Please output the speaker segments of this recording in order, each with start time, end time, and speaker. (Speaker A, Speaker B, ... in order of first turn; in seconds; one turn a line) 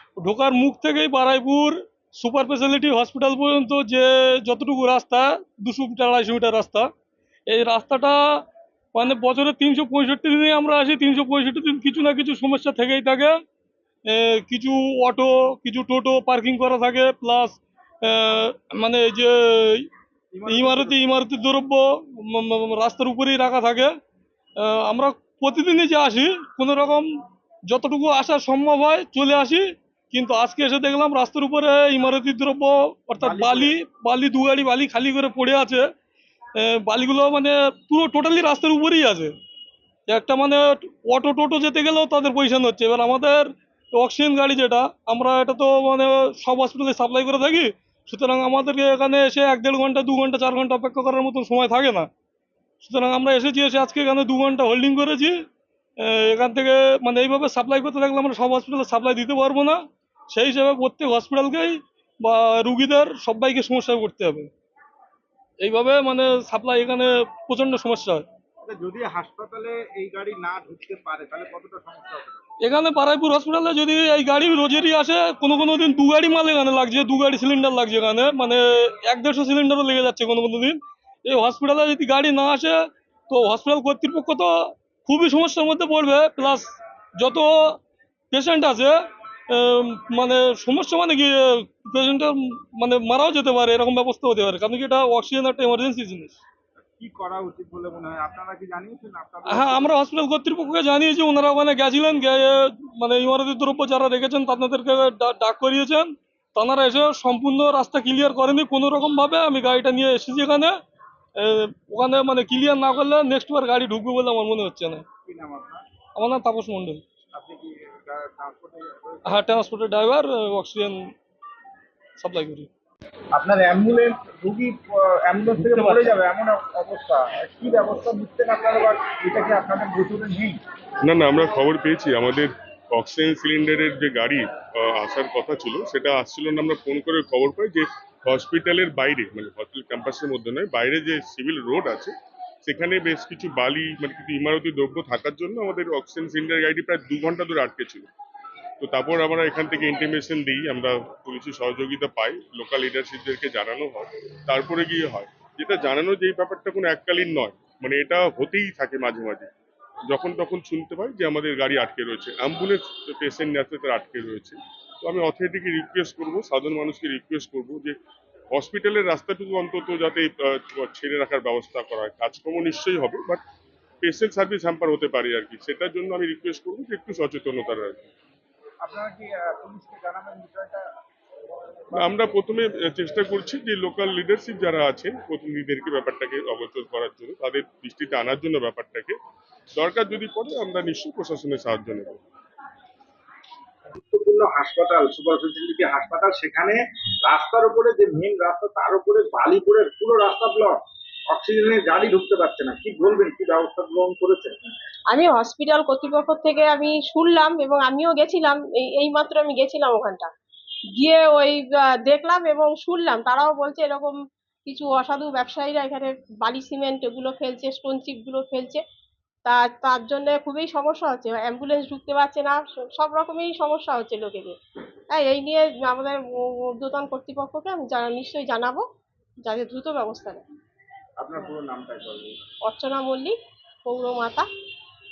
Speaker A: 0.2-6.9
Speaker A: 7.5-8.4
Speaker A: 8.9-13.4
Speaker A: 14.1-19.9
Speaker B: 20.3-21.0
Speaker A: 20.5-23.9
Speaker A: 24.6-27.1
Speaker A: 27.7-35.9
Speaker B: 33.2-33.8
Speaker A: 36.6-39.3
Speaker A: 40.1-52.1
Speaker A: 52.8-55.4
Speaker A: 56.0-59.8
Speaker A: 60.3-64.5
Speaker A: 65.6-68.2
Speaker B: 68.7-72.5
Speaker A: 72.6-82.8
Speaker A: 83.3-86.7
Speaker A: 87.2-87.8
Speaker A: 88.3-89.0
Speaker A: 89.5-96.4
Speaker B: 97.0-99.9
Speaker A: 99.5-110.8
Speaker A: 111.4-115.0
Speaker B: 115.2-115.8
Speaker A: 116.2-117.0
Speaker B: 117.3-119.5
Speaker A: 119.3-121.1
Speaker A: 122.2-122.7
Speaker B: 123.3-130.6
Speaker C: 131.0-142.1
Speaker C: 142.7-148.1
Speaker C: 148.8-159.5
Speaker C: 160.1-168.0
Speaker C: 168.5-173.4
Speaker C: 174.0-178.1
Speaker B: 178.8-180.9
Speaker B: 181.9-182.1
Speaker C: 182.0-189.2
Speaker C: 189.8-192.2
Speaker B: 194.0-200.8
Speaker B: 201.3-204.6
Speaker D: 205.1-210.3
Speaker D: 211.0-214.1
Speaker D: 214.7-218.8
Speaker D: 219.4-224.6
Speaker D: 225.1-228.8
Speaker D: 229.4-230.4
Speaker B: 231.2-232.3
Speaker D: 232.7-233.3
Speaker D: 233.9-234.5